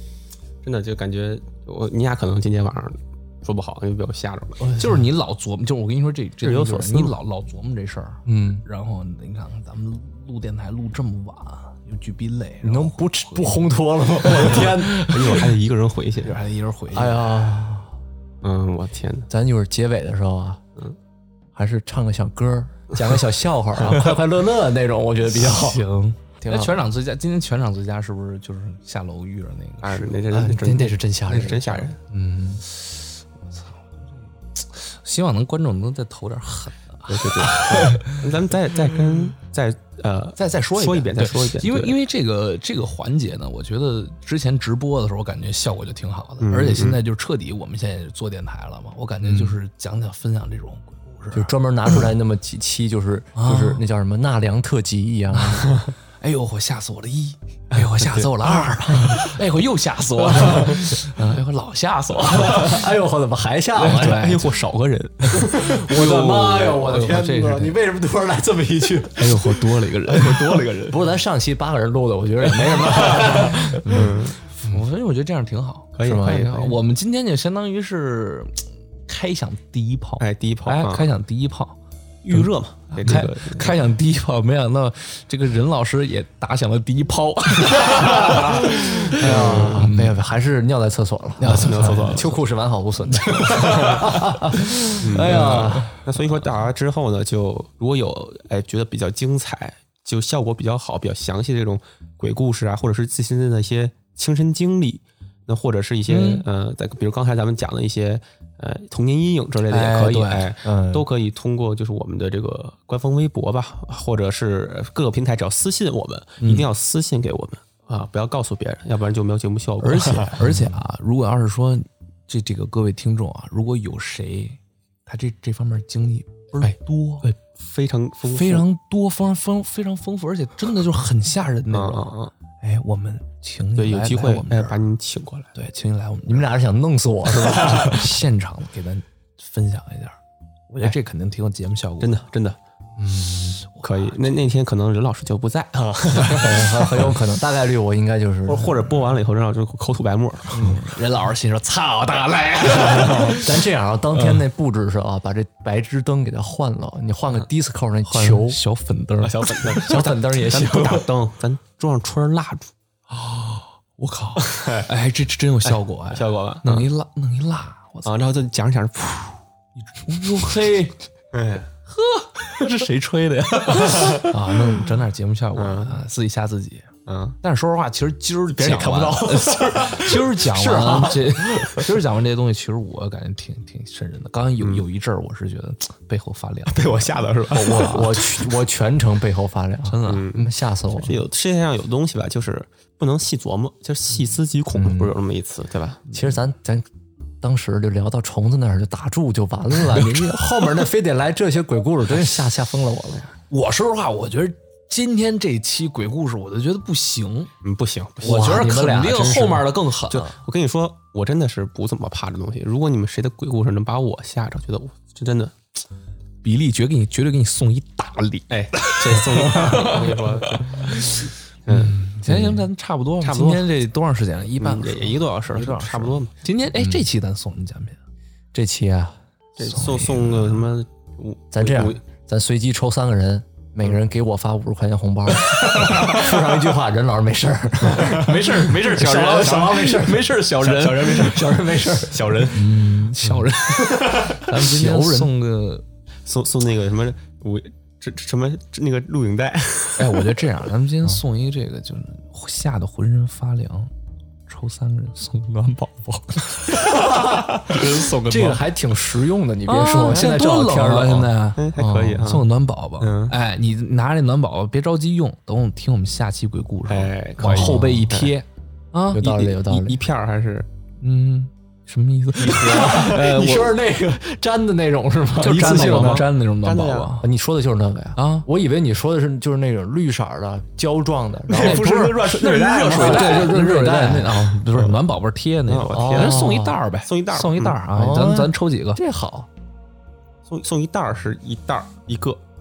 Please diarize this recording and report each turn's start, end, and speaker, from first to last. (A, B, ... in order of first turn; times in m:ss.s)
0:00.6-0:04.7 A
0:04.6-0:05.1 B
0:04.8-0:15.4 C
0:06.4-0:07.2 A
0:08.2-0:08.7 B
0:12.6-0:15.0 B
0:14.3-0:16.4 A
0:16.2-0:17.3 C
0:16.9-0:17.9 B
0:18.4-0:19.3 A
0:19.3-0:20.6 B
0:21.6-0:25.8 B
0:25.3-0:30.2 C
0:26.4-0:26.8 B
0:29.8-0:32.0 A
0:30.3-0:32.6 B
0:33.4-0:38.2 C
0:37.1-0:42.0 A
0:40.4-0:51.5 C
0:46.4-0:47.0 A
0:51.3-0:55.8 B
0:53.4-0:53.8 C
0:56.2-1:02.9 C
0:57.7-0:58.3 A
1:02.3-1:04.3 B
1:03.8-1:04.5 C
1:03.8-1:06.6 A
1:05.3-1:07.8 C
1:05.3-1:14.8 B
1:09.2-1:10.6 C
1:10.1-1:11.0 A
1:13.1-1:21.8 C
1:13.9-1:14.4 A
1:16.0-1:16.7 A
1:16.0-1:16.7 B
1:20.2-1:21.1 A
1:22.2-1:23.8 A
1:22.3-1:30.2 C
1:27.9-1:35.9 B
1:29.2-1:29.9 A
1:31.4-1:32.2 C
1:31.5-1:32.4 A
1:33.4-1:34.0 C
1:35.0-2:00.4 A
1:35.2-1:36.0 C
1:46.1-1:46.5 C
1:49.7-1:50.5 C
1:50.6-1:51.1 B
1:56.4-1:56.7 C
1:59.8-2:07.3 C
2:00.4-2:00.8 B
2:06.6-2:08.6 A
2:08.3-2:14.8 C
2:11.7-2:12.3 A
2:13.8-2:15.5 A
2:15.5-2:16.5 C
2:16.2-2:18.1 B
2:17.5-2:20.2 C
2:20.7-2:22.2 C
2:22.0-2:22.6 A
2:23.0-2:23.6 B
2:23.6-2:24.1 C
2:23.8-2:27.0 A
2:26.3-2:28.8 B
2:28.5-2:30.7 A
2:30.5-2:33.6 C
2:32.7-2:38.6 B
2:34.2-2:34.4 C
2:38.0-2:40.1 C
2:39.2-2:42.7 A
2:39.7-2:41.1 B
2:43.1-2:48.1 C
2:44.4-2:44.9 A
2:45.6-2:46.9 A
2:48.0-2:49.4 A
2:49.8-2:51.0 C
2:51.3-2:51.7 A
2:51.9-3:08.1 C
2:53.7-2:54.4 A
2:55.6-2:56.0 A
2:57.1-2:57.4 A
2:58.5-3:01.1 A
3:00.6-3:01.2 B
3:04.6-3:04.8 A
3:06.7-3:08.5 A
3:07.5-3:11.3 B
3:09.8-3:10.3 C
3:10.1-3:16.0 A
3:14.8-3:15.2 B
3:16.1-3:16.9 B
3:17.4-3:23.3 B
3:19.9-3:20.7 C
3:23.5-3:27.5 C
3:27.6-3:28.5 A
3:28.2-3:29.8 B
3:28.2-3:30.3 C
3:30.1-3:35.5 A
3:36.4-3:48.0 C
3:38.5-3:42.0 A
3:42.3-3:42.6 B
3:43.2-3:43.7 A
3:44.6-3:46.3 A
3:46.8-3:47.1 B
3:48.5-3:49.2 B
3:49.6-3:52.0 A
3:49.6-3:50.6 C
3:51.5-4:02.6 B
3:55.7-3:56.3 C
3:57.9-4:01.5 C
3:59.4-3:59.8 A
4:00.6-4:01.5 A
4:02.0-4:02.6 A
4:02.5-4:05.8 C
4:03.2-4:05.3 B
4:06.3-4:10.4 A
4:10.0-4:13.9 C
4:14.5-4:18.6 C
4:16.9-4:22.4 B
4:19.7-4:29.2 C
4:21.6-4:22.5 A
4:23.0-4:23.4 A
4:26.9-4:28.3 A
4:27.4-4:28.1 B
4:29.1-4:30.7 A
4:29.1-4:30.0 B
4:31.0-4:33.8 C
4:32.5-4:36.3 B
4:32.5-4:33.1 A
4:35.4-4:37.3 C
4:35.5-4:37.1 A
4:37.2-4:42.2 B
4:38.2-4:38.5 C
4:41.5-4:43.6 A
4:41.6-4:49.0 C
4:42.9-4:44.7 B
4:45.7-4:47.8 A
4:45.9-4:46.8 B
4:47.9-4:49.5 B
4:50.5-4:52.4 A